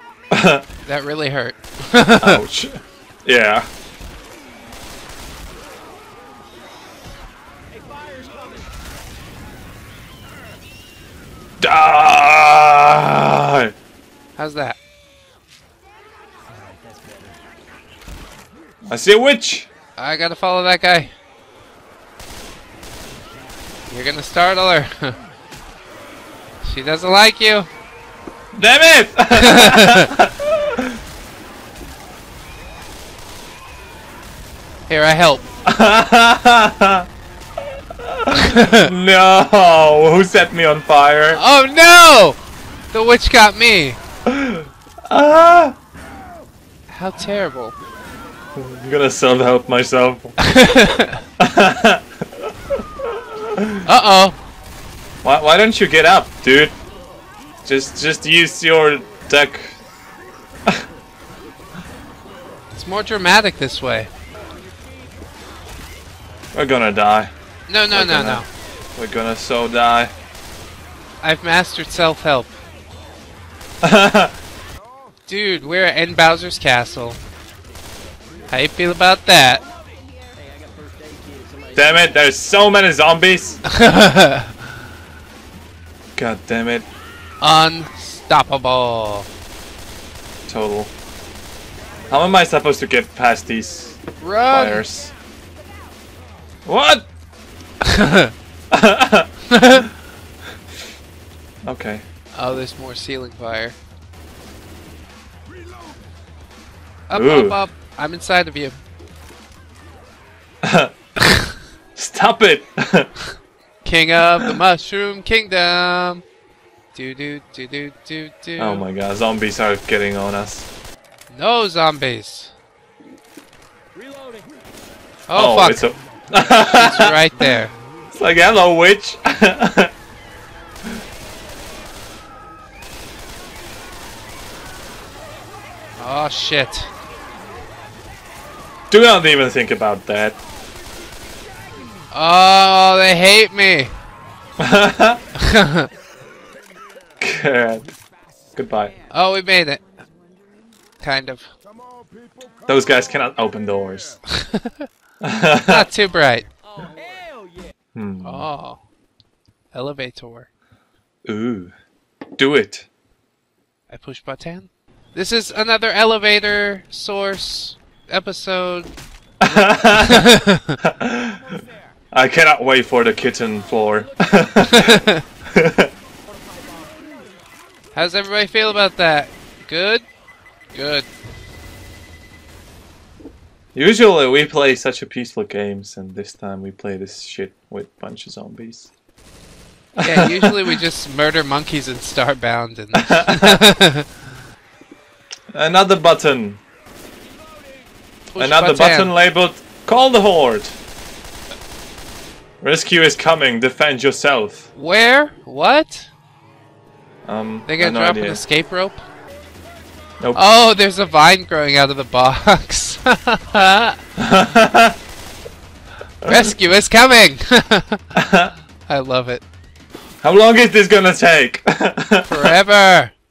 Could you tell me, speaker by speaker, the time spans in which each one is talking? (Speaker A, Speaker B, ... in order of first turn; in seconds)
Speaker A: 0.3-0.7, 2.2-3.7, 11.6-13.7, 18.9-19.7, 28.5-30.9, 35.7-37.1, 38.0-41.4, 44.3-45.8, 48.5-50.4, 51.4-52.1, 53.4-53.9, 55.2-56.8, 57.6-59.8, 66.5-67.3, 67.9-70.1, 73.8-74.3, 81.8-83.6, 86.2-86.9, 90.5-90.9, 92.1-95.1, 96.7-97.1, 98.7-99.3, 101.6-102.0, 107.1-107.6, 110.6-110.9, 112.0-113.1, 118.6-120.7, 125.3-127.2, 128.1-129.9, 138.9-140.4, 144.6-145.2, 147.2-147.9, 148.6-149.0, 152.7-154.2, 155.2-155.9, 157.9-158.5, 161.3-161.7, 162.4-162.9, 169.4-171.6, 172.1-175.9, 183.7-188.9, 190.0-190.8, 192.9-193.6, 195.5-196.6, 198.4-200.8, 202.6-204.7, 207.3-208.4, 214.2-215.0, 216.2-216.5, 218.2-218.5, 220.2-222.5
Speaker B: 0.8-2.4, 14.4-14.8, 20.0-21.1, 23.9-25.2, 26.6-27.7, 29.4-30.1, 34.9-35.4, 38.3-38.9, 41.3-42.4, 42.9-44.0, 46.9-47.8, 50.4-51.2, 53.9-54.4, 62.8-64.1, 67.7-68.5, 71.2-72.5, 75.3-77.2, 78.5-79.6, 83.7-84.6, 87.4-89.3, 94.2-94.8, 97.8-98.3, 99.5-99.9, 102.3-103.8, 107.1-108.8, 111.2-111.5, 113.8-116.2, 116.9-118.8, 121.3-122.5, 125.3-125.9, 126.5-127.7, 136.0-136.9, 142.1-143.9, 145.4-145.9, 149.1-149.8, 151.0-151.5, 154.3-154.9, 155.6-156.5, 158.2-158.8, 159.7-160.5, 163.9-168.9, 169.5-170.8, 174.7-175.2, 177.9-180.1, 180.7-181.1, 190.0-194.1, 198.3-199.1, 204.8-206.1, 207.7-209.0, 210.3-214.0, 216.2-218.1, 218.9-219.4, 222.2-223.1
Speaker C: 16.6-17.4, 80.5-81.8, 156.9-157.3